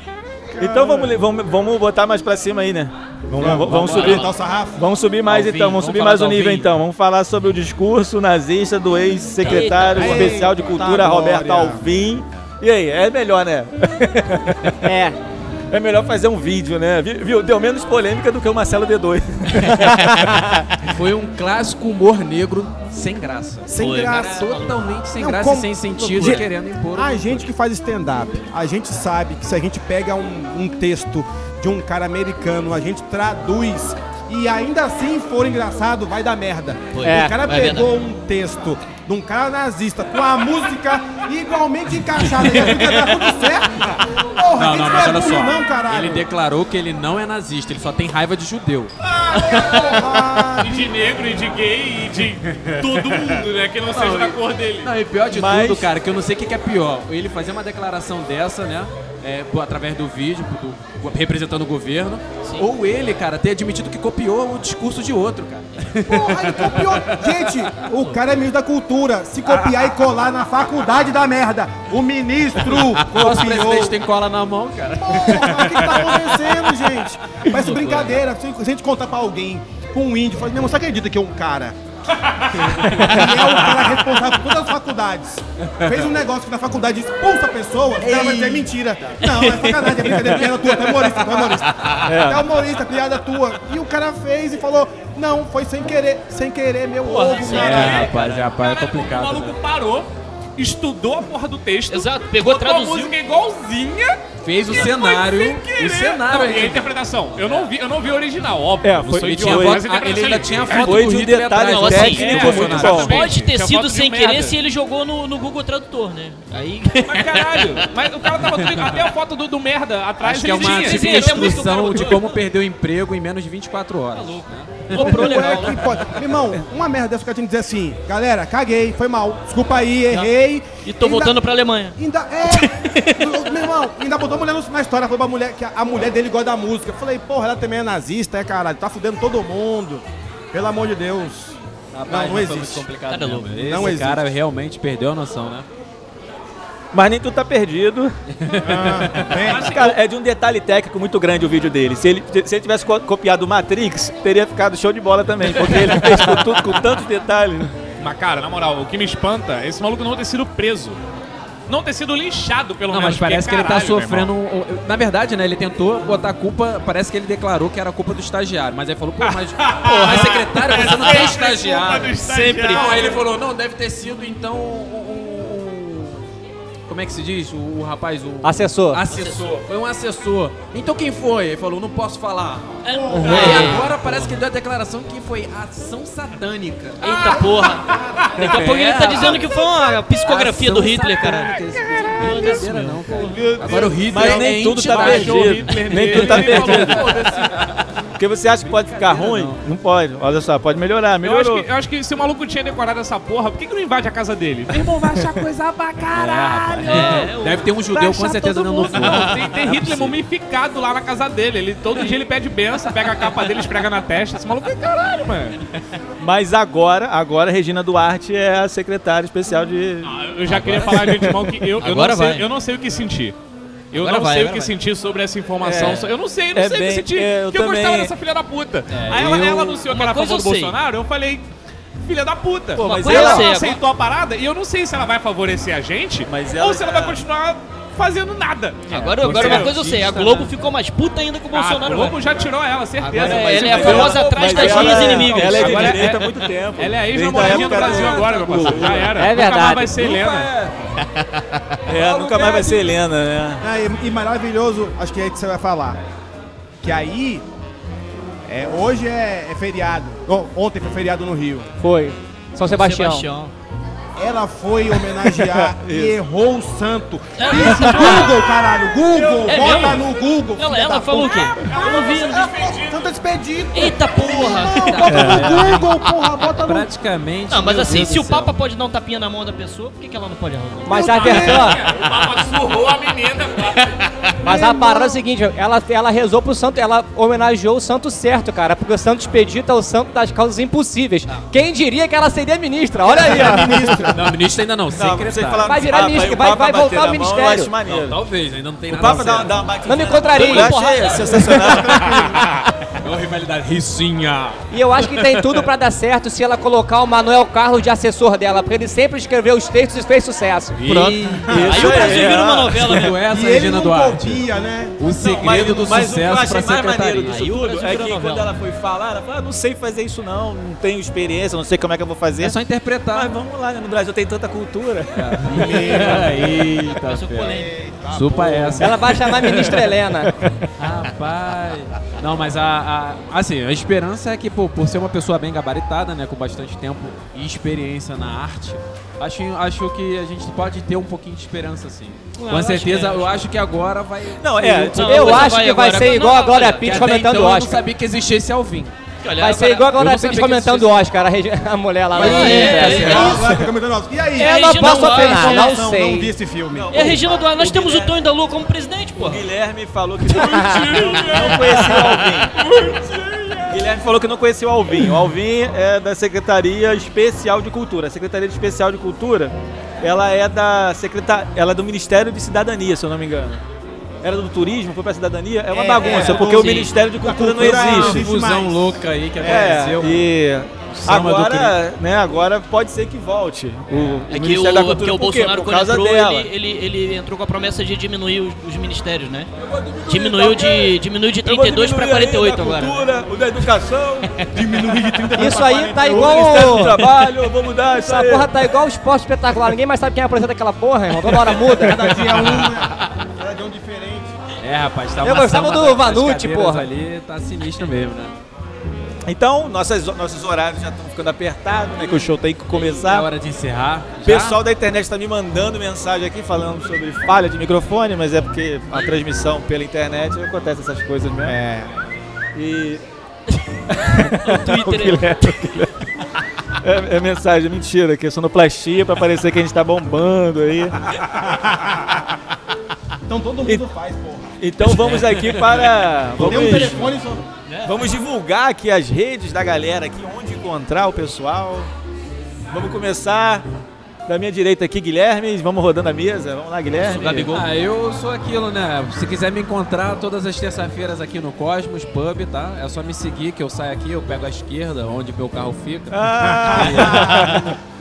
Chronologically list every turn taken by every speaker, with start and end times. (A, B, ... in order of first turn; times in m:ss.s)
0:00.5-0:01.1 A
0:00.6-0:14.8 B
0:03.4-0:04.8 A
0:03.7-0:04.3 C
0:05.3-0:06.7 D
0:09.4-0:10.5 C
0:09.6-0:11.8 A
0:14.8-0:15.2 E
0:15.7-0:20.6 B
0:20.8-0:27.5 D
0:23.7-0:46.3 A
0:23.8-0:24.8 C
0:26.1-0:26.4 C
0:36.9-0:37.9 C
0:37.0-0:37.4 E
0:42.4-0:43.1 C
0:44.6-0:48.9 D
0:49.2-0:50.9 A
0:49.3-0:54.9 F
0:53.9-1:07.5 D
0:55.3-0:55.9 B
1:02.4-1:02.7 C
1:06.0-1:14.0 A
1:12.8-1:16.2 D
1:15.0-1:21.8 A
1:17.6-1:18.2 D
1:22.2-1:22.6 F
1:22.6-1:23.4 B
1:22.8-1:38.1 A
1:28.0-1:28.6 D
1:29.2-1:30.0 C
1:30.2-1:30.4 B
1:32.0-1:32.5 B
1:37.0-1:38.6 C
1:37.4-1:37.7 F
1:37.5-1:39.6 D
1:38.5-1:51.1 F
1:41.9-1:43.1 C
1:44.4-1:46.9 D
1:48.8-1:49.9 B
1:49.1-1:53.2 D
1:50.6-1:53.2 B
1:51.5-1:57.9 C
1:52.1-1:54.6 F
1:57.1-2:02.4 F
1:58.5-1:59.0 D
2:00.2-2:05.7 D
2:00.5-2:02.4 C
2:04.1-2:06.4 C
2:04.9-2:11.4 A
2:10.8-2:13.5 C
2:12.0-2:21.6 A
2:21.9-2:25.6 D
2:22.1-2:22.9 A
2:23.1-2:23.9 C
2:23.6-2:24.3 A
2:26.9-2:28.1 B
2:28.3-2:29.5 D
2:28.6-2:29.7 A
2:29.4-2:30.0 F
2:29.5-2:37.7 B
2:35.6-2:36.5 F
2:38.0-2:41.0 F
2:41.7-2:44.3 F
2:42.9-2:56.2 D
2:49.2-2:53.2 F
2:49.9-2:50.4 C
2:52.2-2:52.9 C
2:56.9-3:07.4 D
2:58.4-2:59.0 E
2:59.1-2:59.5 C
3:02.8-3:04.4 C
3:02.9-3:03.9 A
3:03.1-3:03.8 E
3:03.3-3:03.9 F
3:07.0-3:13.3 C
3:07.9-3:08.4 F
3:08.3-3:09.6 D
3:10.2-3:17.8 D
3:11.7-3:12.4 F
3:13.1-3:17.1 B
3:14.1-3:17.7 F
3:18.2-3:21.6 B
3:18.6-3:19.6 D
3:21.2-3:27.2 F
3:24.7-3:25.4 D
3:26.1-3:30.1 D
3:26.8-3:29.6 C
3:27.9-3:35.6 F
3:36.2-3:40.2 B
3:40.0-3:43.4 F
3:40.6-3:40.9 D
3:41.8-3:42.5 C
3:43.9-3:51.5 F
3:44.0-3:44.7 C
3:45.6-3:46.1 D
3:46.5-3:48.1 B
3:48.9-3:49.8 D
3:49.9-3:50.7 C
3:52.0-3:59.8 F
3:52.8-3:53.8 C
3:52.8-3:53.4 E
3:52.9-3:53.4 D
3:56.3-3:57.2 B
3:58.9-4:00.5 D
3:58.9-4:02.2 C
4:01.5-4:10.6 F
4:03.0-4:06.1 C
4:03.2-4:05.3 D
4:03.2-4:09.1 B
4:07.4-4:09.1 D
4:09.1-4:10.0 E
4:09.9-4:10.8 D
4:11.0-4:11.4 C
4:11.9-4:13.6 B
4:11.9-4:12.9 D
4:13.6-4:16.0 A
4:16.8-4:17.5 A
4:18.5-4:21.7 A
4:21.8-4:23.3 E
4:22.6-4:23.5 C
4:24.2-4:36.9 A
4:25.4-4:26.2 B
4:27.4-4:28.4 C
4:29.1-4:30.0 F
4:29.4-4:32.5 C
4:31.5-4:33.2 F
4:33.7-4:35.9 C
4:34.8-4:36.0 D
4:35.1-4:35.5 B
4:36.5-4:38.6 D
4:37.5-4:42.1 C
4:40.8-4:41.8 E
4:40.9-4:41.8 A
4:41.0-4:44.1 F
4:44.4-4:54.1 E
4:44.5-4:45.1 A
4:53.0-4:54.3 A
4:54.1-4:55.7 D
4:54.9-4:58.2 B
4:55.6-4:57.7 E
4:57.8-4:59.7 D
4:58.9-5:02.4 B
4:59.8-5:01.8 E
5:00.2-5:01.7 C
5:01.5-5:02.4 A
5:03.0-5:05.6 D
5:04.7-5:10.8 E
5:10.8-5:14.5 D
5:10.9-5:13.1 B
5:11.5-5:12.4 A
5:11.5-5:13.1 C
5:13.2-5:15.0 A
5:15.0-5:17.4 D
5:15.2-5:22.6 B
5:17.2-5:18.5 C
5:22.4-5:23.3 D
5:23.1-5:26.1 B
5:25.2-5:29.8 D
5:25.5-5:26.7 A
5:26.9-5:27.7 C
5:27.4-5:29.0 A
5:28.8-5:30.3 E
5:30.3-5:30.7 B
5:30.8-5:45.5 D
5:42.4-5:43.3 C
5:44.4-5:45.5 B
5:44.8-5:47.0 C
5:45.0-5:47.8 E
5:46.8-5:48.9 D
5:49.2-5:49.9 C
5:49.4-5:53.5 E
5:49.9-5:51.0 D
5:52.1-5:53.5 D
5:52.1-5:57.1 A
5:52.2-5:53.6 C
5:54.4-5:55.9 C
5:54.4-5:56.3 E
5:56.7-5:58.2 B
5:56.9-5:59.4 C
5:59.2-6:02.6 B
6:00.4-6:01.1 E
6:00.4-6:03.7 F
6:00.5-6:01.0 C
6:03.7-6:13.6 B
6:14.2-6:18.3 B
6:15.7-6:19.8 A
6:16.0-6:17.0 C
6:17.6-6:20.2 D
6:19.4-6:26.5 B
6:20.9-6:21.8 D
6:24.3-6:29.5 C
6:29.6-6:34.3 B
6:30.1-6:33.1 C
6:34.5-6:37.0 A
6:35.4-6:37.0 E
6:36.0-6:38.5 B
6:37.9-6:42.2 E
6:41.5-6:44.3 A
6:42.0-6:42.7 B
6:44.6-6:48.4 D
6:45.2-6:46.9 E
6:49.3-6:53.3 B
6:52.8-6:54.6 D
6:54.2-7:01.6 B
7:01.4-7:01.9 A
7:02.5-7:03.0 B
7:03.5-7:05.5 C
7:03.9-7:06.1 B
7:06.8-7:11.1 B
7:11.4-7:12.0 A
7:13.3-7:14.6 A
7:14.6-7:17.1 B
7:16.3-7:17.4 A
7:17.6-7:18.0 C
7:17.8-7:21.9 B
7:22.7-7:23.6 B
7:24.3-7:27.6 B
7:26.9-7:27.6 C
7:27.4-7:37.4 D
7:36.1-7:37.8 B
7:36.4-7:37.7 A